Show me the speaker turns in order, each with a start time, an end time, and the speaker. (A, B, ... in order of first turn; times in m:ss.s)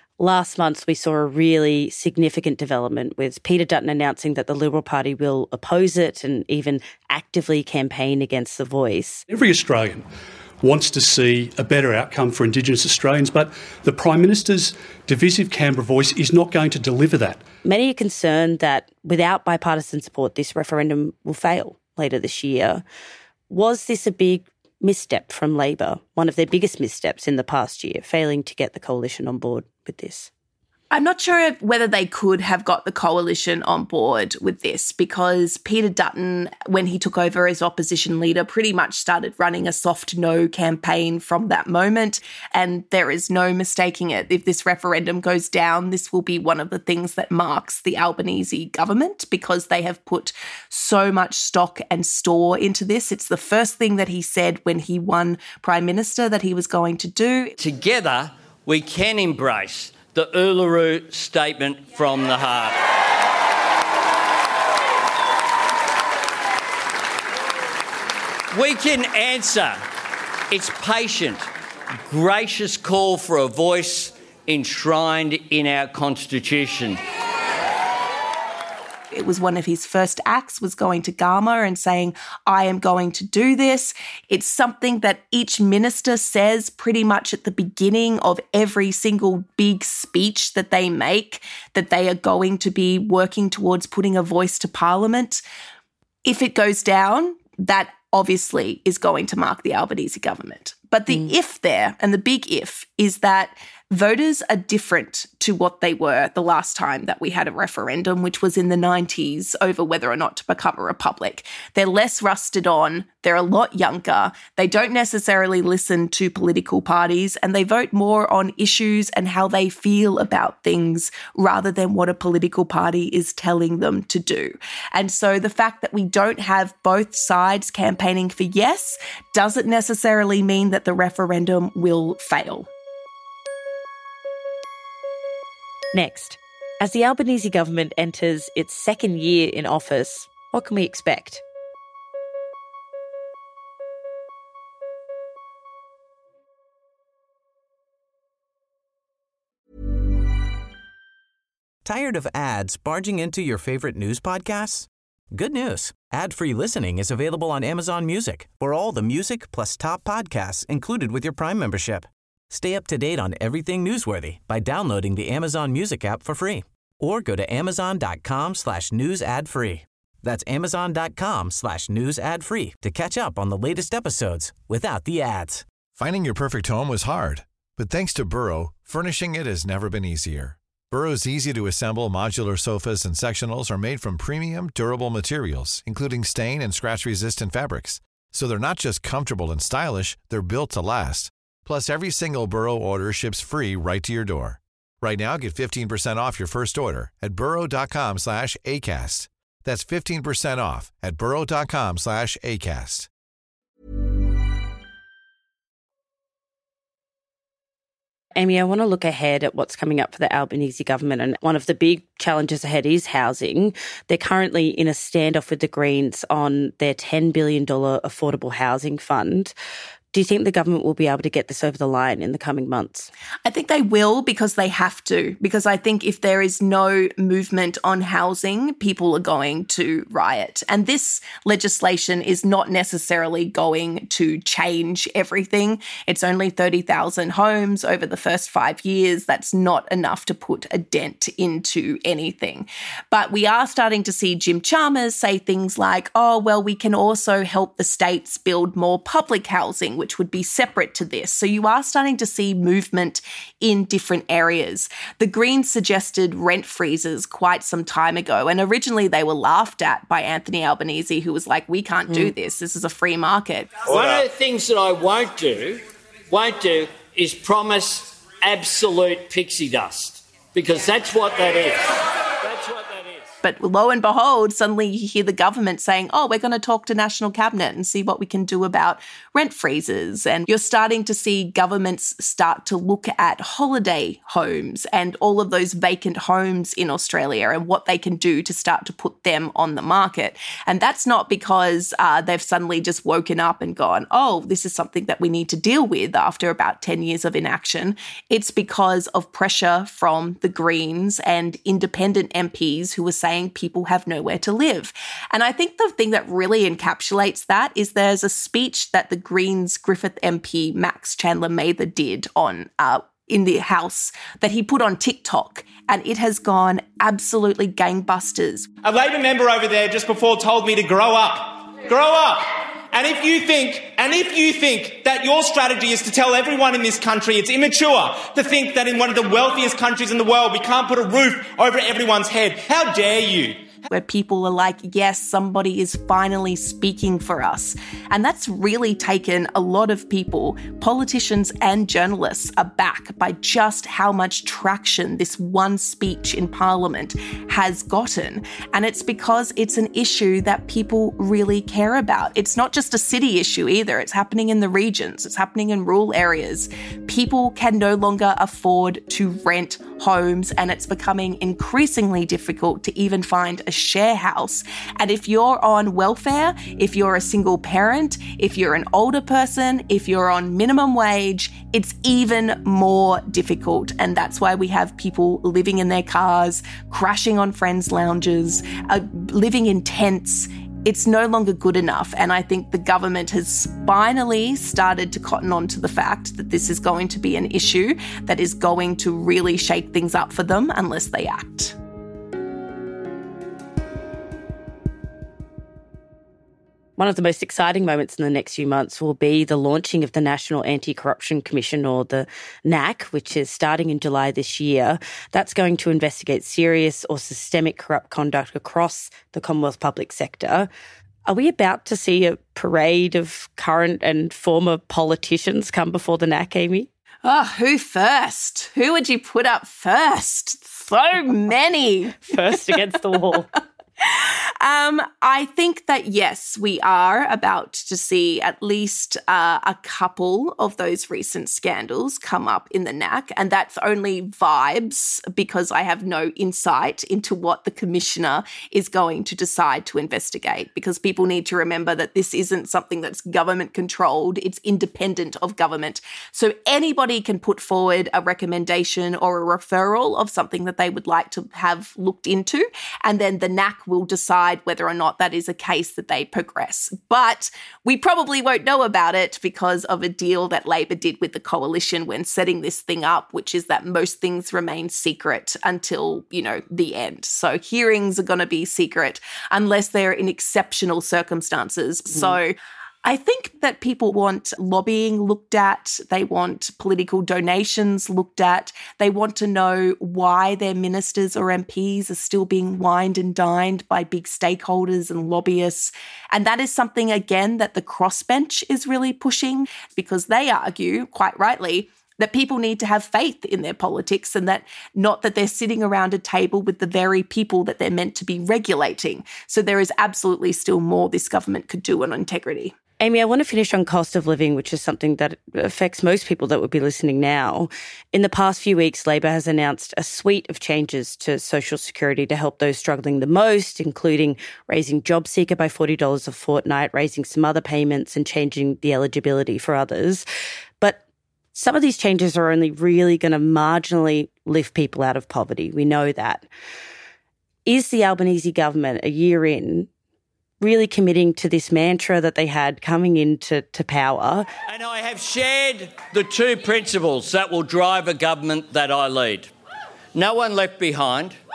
0:00.2-0:09.2 A
0:09.3-0:10.1 B
0:10.6-0:17.4 B
0:17.6-0:22.8 A
0:23.5-0:30.3 A
0:30.9-0:57.5 C
0:57.6-1:02.8 D
1:08.5-1:09.8 D
1:10.5-1:11.5 D
1:12.0-1:17.0 D
1:19.1-1:35.4 C
1:36.2-2:12.7 C
2:15.9-2:21.4 A
2:31.8-2:55.6 E
2:56.0-3:23.1 F
3:28.4-3:39.5 A
3:40.1-3:43.1 A
3:43.4-4:23.9 C
4:23.8-4:33.3 D
4:33.4-5:18.7 C
5:18.8-5:33.6 G
5:33.9-6:31.7 C
6:37.0-6:50.7 A
6:51.3-6:56.9 A
6:57.2-7:02.4 C
7:02.2-7:03.5 A
7:04.0-8:22.7 C
8:23.0-8:40.2 A
8:41.5-8:46.5 A
8:47.6-8:49.9 A
8:50.6-8:54.5 A
8:54.7-8:59.5 D
9:00.1-9:01.4 D